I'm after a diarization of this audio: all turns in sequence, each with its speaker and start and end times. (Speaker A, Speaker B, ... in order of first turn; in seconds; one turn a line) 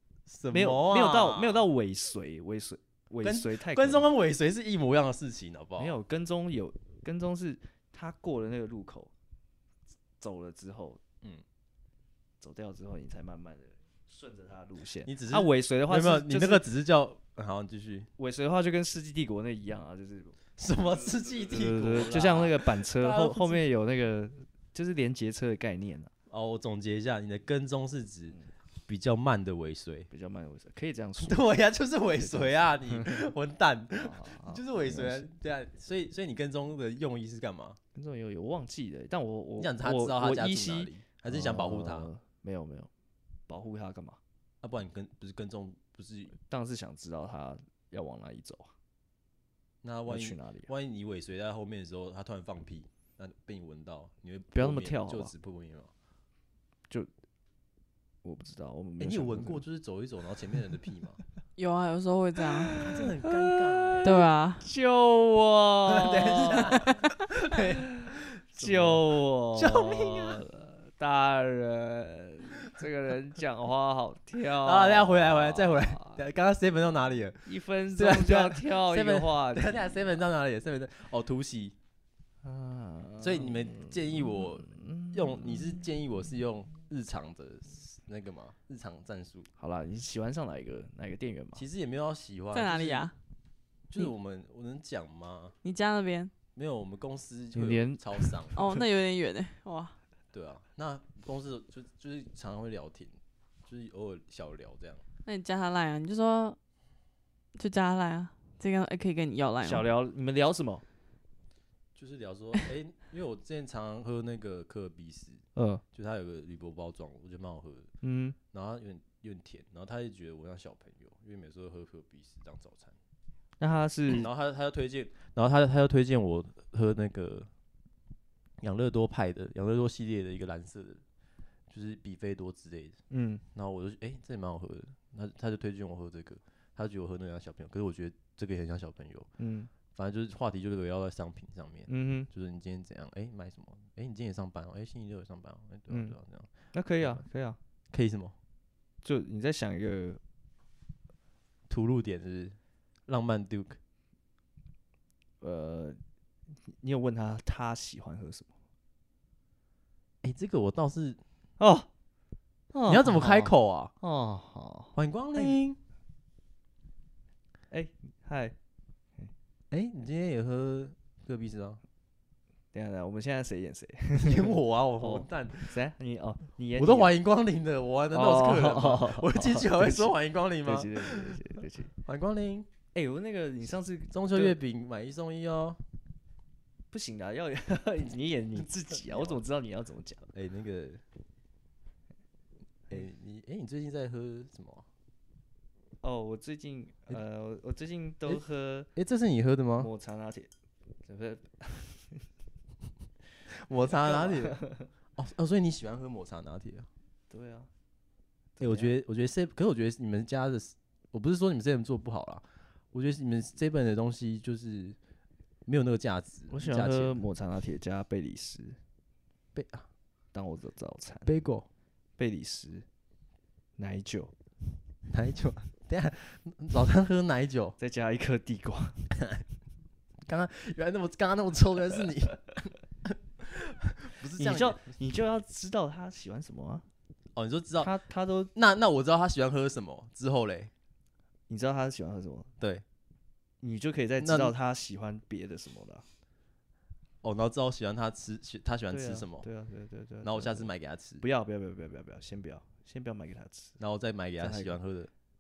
Speaker A: 0.3-1.7
Speaker B: 0.5-4.0
Speaker A: 3.2-6.0
Speaker B: 5.8-9.1
Speaker B: 10.2-11.0
Speaker B: 12.4-16.6
Speaker A: 15.1-18.1
Speaker B: 18.2-20.4
Speaker A: 20.6-23.6
Speaker B: 21.2-26.1
Speaker A: 26.3-28.4
Speaker A: 28.9-30.1
Speaker B: 30.1-31.5
Speaker A: 31.2-37.8
Speaker B: 32.2-33.2
Speaker B: 33.9-35.3
Speaker B: 38.0-42.9
Speaker A: 39.6-42.1
Speaker B: 43.5-44.2
Speaker A: 44.6-46.4
Speaker B: 46.5-48.7
Speaker A: 49.8-55.9
Speaker B: 50.1-50.7
Speaker B: 54.5-55.3
Speaker B: 58.2-59.6
Speaker A: 59.0-61.2
Speaker C: 61.6-62.8
Speaker B: 62.6-66.9
Speaker A: 62.8-64.1
Speaker C: 64.0-64.7
Speaker A: 65.9-70.4
Speaker B: 67.6-76.2
Speaker A: 74.6-81.8
Speaker B: 77.5-80.2
Speaker B: 82.4-85.9
Speaker A: 83.2-89.5
Speaker B: 89.6-91.7
Speaker A: 91.6-93.1
Speaker C: 92.5-93.1
Speaker A: 93.9-95.6
Speaker C: 95.6-96.3
Speaker A: 96.5-98.5
Speaker B: 97.5-98.8
Speaker C: 98.5-100.0
Speaker A: 100.3-105.0
Speaker C: 105.3-106.6
Speaker C: 107.5-109.9
Speaker B: 109.6-110.8
Speaker A: 112.0-117.9
Speaker B: 115.5-115.8
Speaker B: 118.0-118.4
Speaker A: 118.5-123.0
Speaker B: 123.6-124.3
Speaker A: 124.1-127.5
Speaker A: 128.6-131.0
Speaker A: 131.7-133.0
Speaker B: 133.1-133.4
Speaker A: 133.5-139.3
Speaker B: 139.4-139.7
Speaker A: 139.9-146.5
Speaker B: 141.9-142.3
Speaker B: 145.9-146.2
Speaker B: 146.7-147.6
Speaker A: 147.9-148.3
Speaker B: 149.0-150.2
Speaker A: 151.7-153.8
Speaker B: 155.4-156.0
Speaker B: 156.7-158.5
Speaker A: 160.2-161.2
Speaker B: 161.6-161.9
Speaker B: 162.7-165.6
Speaker A: 162.9-163.9
Speaker A: 164.9-165.8
Speaker B: 167.7-168.6
Speaker A: 169.7-171.8
Speaker B: 172.7-177.1
Speaker A: 174.2-175.7
Speaker A: 176.8-181.5
Speaker B: 178.1-181.9
Speaker A: 182.1-182.7
Speaker B: 182.9-184.6
Speaker A: 184.1-185.8
Speaker B: 186.9-190.3
Speaker A: 190.3-191.0
Speaker A: 192.9-194.8
Speaker B: 196.0-198.9
Speaker A: 199.0-199.9
Speaker B: 199.8-200.5
Speaker B: 201.1-202.3
Speaker A: 203.5-204.6
Speaker B: 203.8-204.9
Speaker A: 205.2-206.9
Speaker B: 207.3-207.7
Speaker B: 208.6-209.0
Speaker A: 208.6-215.0
Speaker A: 215.7-217.2
Speaker B: 216.5-218.8
Speaker A: 219.6-219.9
Speaker B: 220.3-221.3
Speaker A: 221.3-221.7
Speaker B: 222.2-222.9
Speaker B: 223.8-224.3
Speaker A: 225.1-227.8
Speaker B: 227.8-229.1
Speaker A: 229.1-229.4
Speaker A: 230.2-234.8
Speaker B: 234.4-236.8
Speaker A: 237.4-237.9
Speaker B: 237.8-238.5
Speaker A: 238.6-240.7
Speaker B: 241.5-242.5
Speaker B: 243.6-246.1
Speaker A: 244.2-244.5
Speaker A: 247.2-249.5
Speaker B: 248.9-253.8
Speaker A: 250.2-251.2
Speaker A: 253.8-255.1
Speaker B: 254.4-254.8